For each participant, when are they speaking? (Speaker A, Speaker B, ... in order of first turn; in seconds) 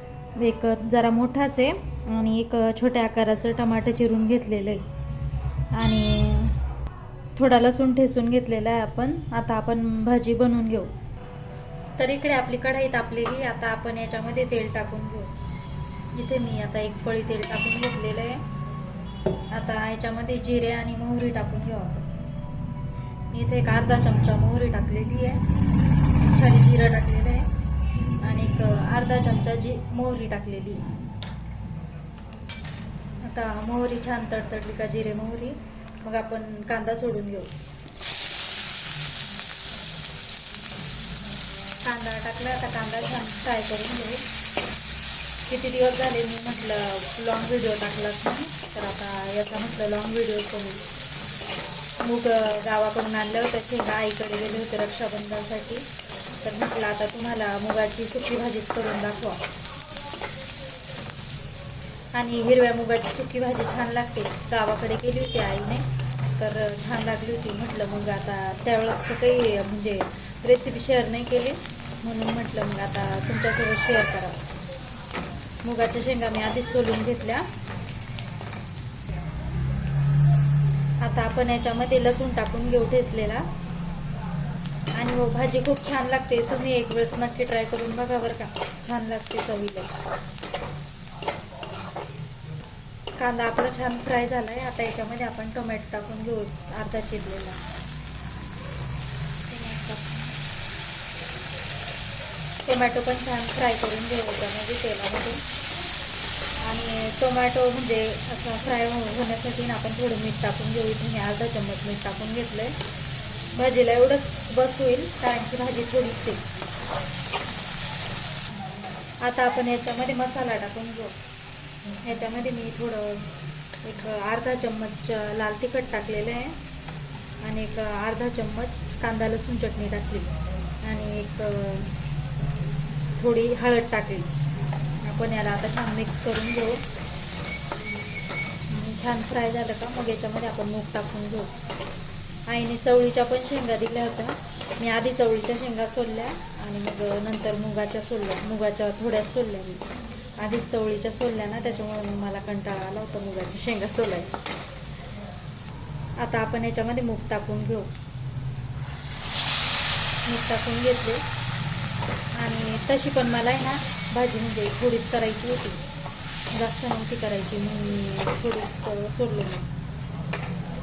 Speaker A: 0.3-4.8, 5.7-6.5, 7.3-10.9, 12.0-15.3, 16.1-18.4, 19.5-22.1, 23.3-25.4, 26.2-27.5, 28.2-30.9, 33.2-37.5, 41.8-44.2, 45.5-50.8, 52.0-55.9, 56.4-59.4, 62.1-74.4, 75.6-77.5, 81.0-83.5, 84.9-90.0, 93.2-97.6, 99.5-100.3, 102.7-105.4, 106.6-112.8, 113.5-116.5, 119.2-121.2, 122.0-123.3, 123.8-126.6, 127.4-131.9, 133.2-134.3, 135.0-136.8, 138.7-141.5, 142.5-149.8, 150.4-154.4, 156.2-157.9, 160.2-161.2, 162.4-165.8, 166.5-169.7